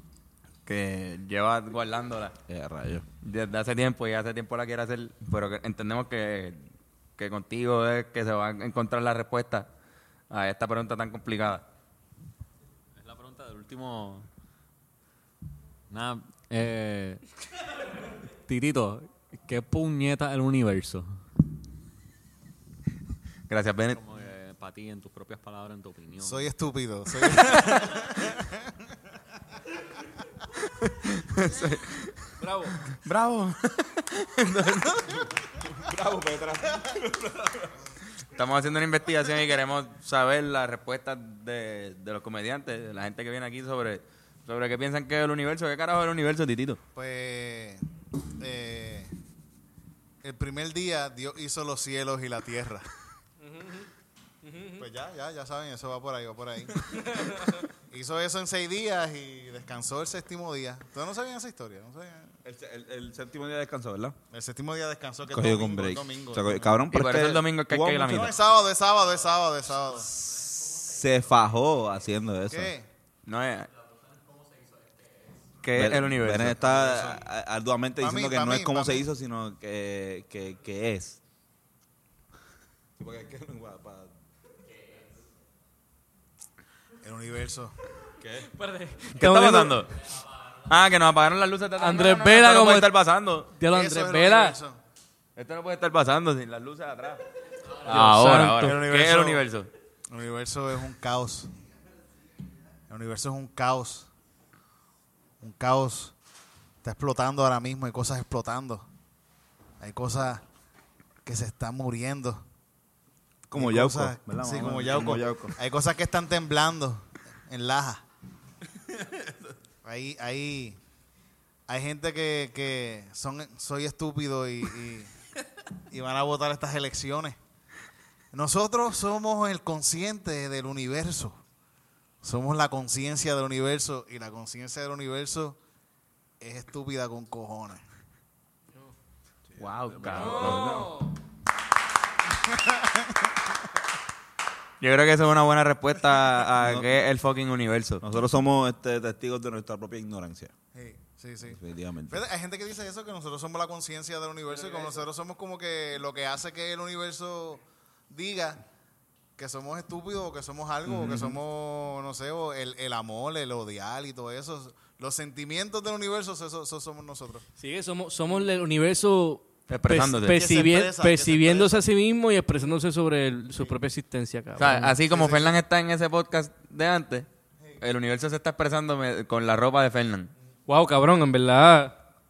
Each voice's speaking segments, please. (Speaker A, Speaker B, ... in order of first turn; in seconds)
Speaker A: 0.7-2.3, 3.2-6.6, 7.2-9.7, 10.3-11.6, 23.5-24.0, 30.7-32.3, 32.9-35.2, 38.3-46.8, 66.9-68.3, 73.2-73.7, 75.6-76.6, 89.1-89.9, 90.7-93.5, 95.3-97.2, 97.8-99.7, 139.6-140.8, 144.8-148.0, 169.7-170.4, 174.6-177.3, 177.8-180.3
Speaker B: 2.5-3.0, 35.6-37.7, 62.4-64.2, 65.3-68.3, 70.7-72.7, 75.7-81.2, 83.0-84.1, 88.2-88.5, 89.2-89.7, 113.5-115.5, 119.0-119.3, 139.9-140.9, 146.6-146.9, 148.0-150.5, 151.5-152.2, 160.8-161.3
Speaker C: 12.9-14.3, 15.9-17.2, 18.4-21.1, 23.9-26.5
Speaker D: 26.2-28.6, 46.9-47.8, 48.4-49.1, 50.2-52.9, 54.8-57.4, 57.9-62.3, 64.3-66.7, 68.1-70.5, 72.5-72.8, 76.6-77.2, 78.0-79.0, 87.0-87.7, 93.7-94.8, 98.6-99.4, 100.1-101.5, 102.9-104.1, 105.4-106.1, 106.8-108.9, 109.8-110.4, 111.2-112.4, 113.5-118.0, 119.8-120.8, 121.7-125.1, 125.9-127.4, 128.3-131.4, 132.2-135.6, 136.4-137.8, 142.4-143.2, 150.7-158.6, 159.4-167.4, 170.3-171.8, 175.1-175.6
Speaker E: 32.4-32.8, 53.5-53.8, 54.4-54.8, 57.0-57.6, 88.5-89.7, 91.8-92.9, 93.5-94.5, 97.8-98.8, 140.1-141.1, 167.6-174.9, 180.7-181.9